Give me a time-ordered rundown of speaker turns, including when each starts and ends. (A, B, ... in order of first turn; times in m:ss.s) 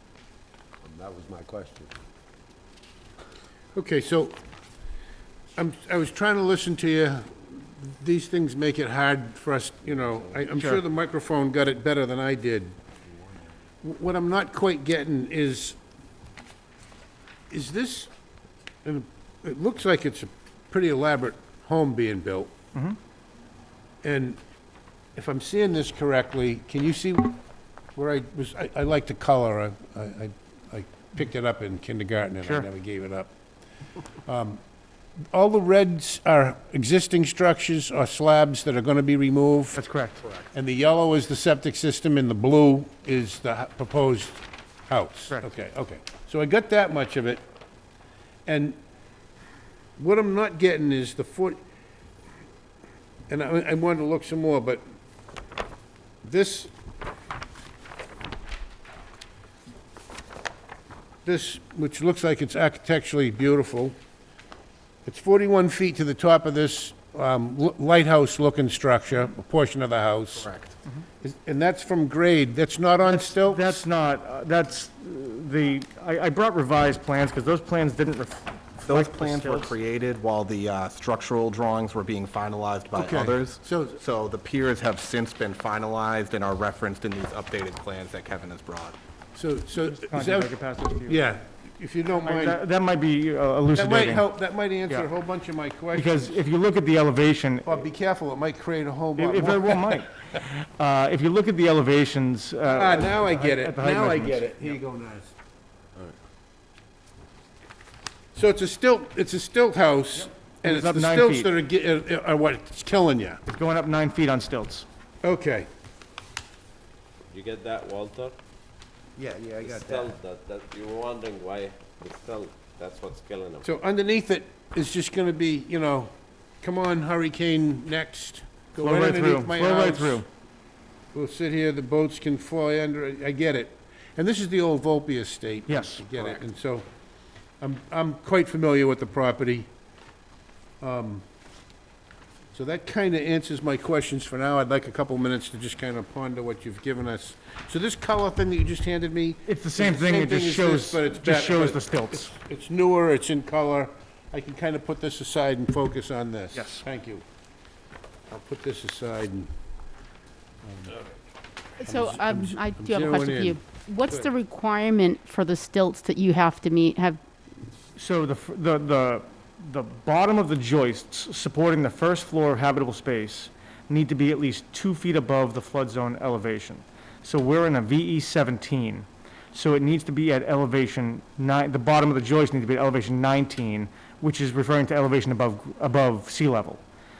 0:00.8-0:01.9 A
0:03.7-0:04.4 B
0:05.6-0:12.8 B
0:13.8-0:15.8 B
0:17.5-0:18.1 B
0:18.8-0:22.5 B
0:24.0-0:24.4 B
0:25.2-0:27.4 B
0:28.0-0:33.3 B
0:34.2-0:34.6 B
0:35.3-0:39.8 B
0:39.7-0:40.2 C
0:40.5-0:47.4 B
0:48.4-0:48.8 B
0:50.0-0:51.6 B
0:53.3-0:54.8 B
0:56.2-0:56.7 B
1:01.2-1:03.9 B
1:05.0-1:10.5 B
1:10.4-1:10.8 D
1:11.2-1:13.8 B
1:13.0-1:19.7 C
1:18.8-1:29.0 D
1:22.9-1:24.0 B
1:29.3-1:30.5 B
1:29.8-1:31.2 C
1:31.0-1:32.6 B
1:32.2-1:34.2 C
1:33.7-1:36.4 B
1:35.9-1:37.8 C
1:37.6-1:40.0 B
1:39.2-1:44.8 C
1:42.6-1:45.3 B
1:48.3-1:53.4 B
1:50.6-1:51.5 C
1:53.5-1:54.8 C
1:55.2-1:55.7 B
1:57.3-1:58.3 E
1:59.2-2:00.1 A
1:59.6-2:03.7 E
2:03.6-2:10.2 B
2:08.8-2:10.3 C
2:11.1-2:16.8 B
2:15.7-2:16.3 C
2:17.6-2:19.7 B
2:20.8-2:21.2 B
2:22.5-2:37.2 B
2:29.5-2:32.3 C
2:36.5-2:36.8 C
2:38.3-2:39.5 B
2:40.6-2:41.0 B
2:41.8-2:44.3 B
2:41.8-2:47.2 F
2:48.0-3:06.8 C